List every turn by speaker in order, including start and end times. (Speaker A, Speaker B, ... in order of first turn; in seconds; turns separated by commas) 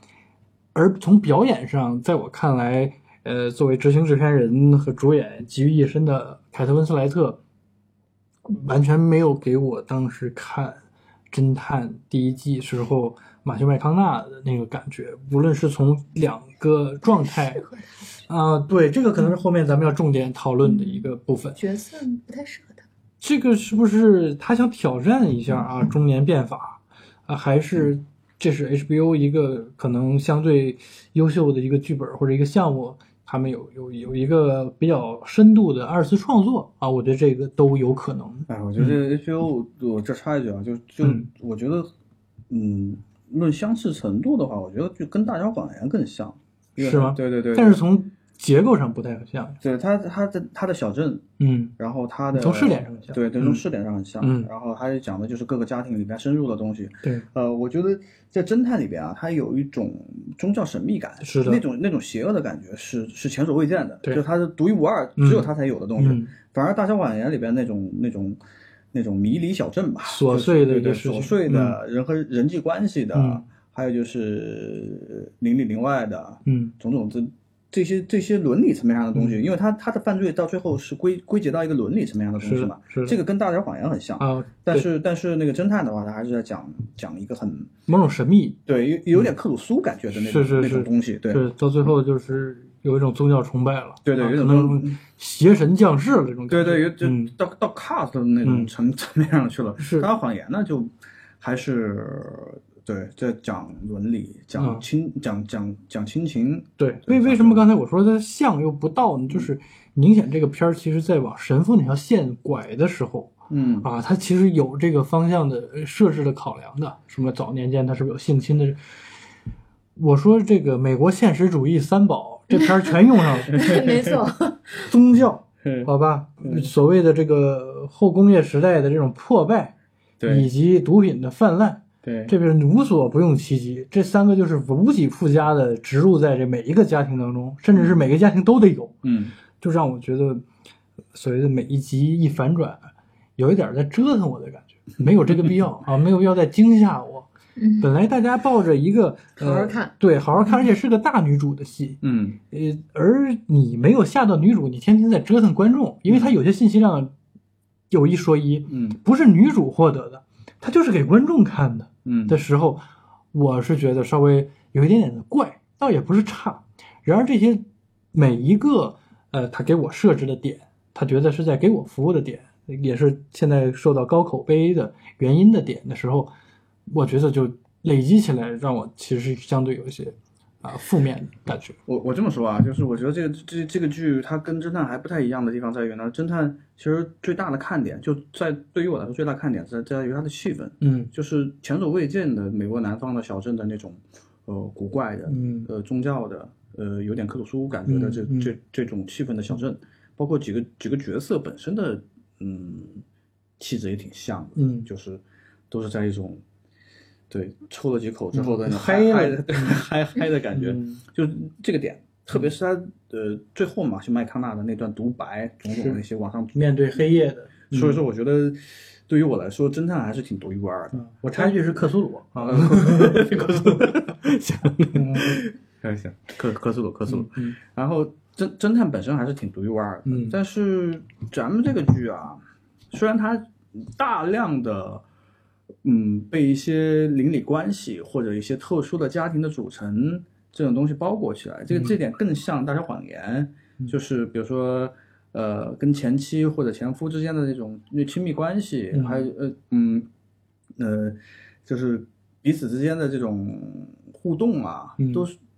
Speaker A: 0.7-7.4, Speaker A: 8.5-10.8, Speaker A: 11.3-17.6, Speaker B: 17.1-17.9, Speaker A: 18.3-21.6, Speaker B: 20.6-22.9, Speaker A: 23.2-39.0, Speaker C: 38.5-41.9, Speaker A: 41.0-41.3, Speaker C: 42.5-47.8, Speaker A: 46.8-49.6, Speaker C: 49.6-51.2, Speaker A: 51.4-51.8, Speaker C: 51.8-68.4, Speaker A: 52.3-53.6, Speaker A: 54.2-54.5, Speaker A: 61.2-61.6, Speaker A: 65.2-66.3, Speaker C: 68.9-87.7, Speaker A: 70.0-71.8, Speaker A: 73.1-73.4, Speaker A: 76.5-76.7, Speaker A: 82.4-83.2, Speaker A: 84.2-84.9, Speaker A: 87.9-88.6, Speaker C: 88.7-91.4, Speaker A: 90.1-97.3, Speaker C: 94.0-95.0, Speaker C: 96.5-107.7, Speaker A: 98.4-98.7, Speaker A: 99.8-100.1, Speaker A: 104.6-104.8, Speaker A: 106.8-118.8, Speaker C: 113.5-113.9, Speaker A: 120.0-123.8, Speaker B: 122.5-124.9, Speaker A: 124.9-129.7, Speaker C: 125.6-125.9, Speaker C: 126.4-126.7, Speaker C: 130.2-130.5, Speaker A: 130.3-138.9, Speaker C: 132.0-132.3, Speaker C: 139.0-139.4, Speaker A: 139.6-140.4, Speaker A: 141.1-142.8, Speaker A: 143.4-147.3, Speaker B: 147.6-147.9, Speaker A: 147.8-152.0, Speaker B: 149.4-149.9, Speaker C: 152.0-152.4, Speaker A: 152.5-157.1, Speaker C: 156.1-156.3, Speaker A: 157.9-176.3, Speaker C: 158.7-159.0, Speaker C: 162.1-162.4, Speaker A: 176.9-181.8, Speaker C: 181.9-203.0, Speaker A: 190.8-191.1, Speaker A: 195.3-195.7, Speaker A: 197.9-198.5, Speaker C: 203.6-206.4, Speaker A: 204.6-204.9, Speaker C: 207.3-216.7, Speaker A: 208.3-209.8, Speaker A: 210.5-211.0, Speaker A: 215.7-216.0, Speaker A: 216.5-218.0, Speaker C: 217.7-221.8, Speaker A: 220.9-223.9, Speaker C: 222.4-232.4, Speaker A: 224.9-225.4, Speaker A: 227.1-227.6, Speaker A: 230.1-230.4, Speaker C: 232.9-235.0, Speaker C: 235.8-250.1, Speaker A: 248.9-249.3, Speaker C: 250.8-255.3, Speaker A: 255.0-255.3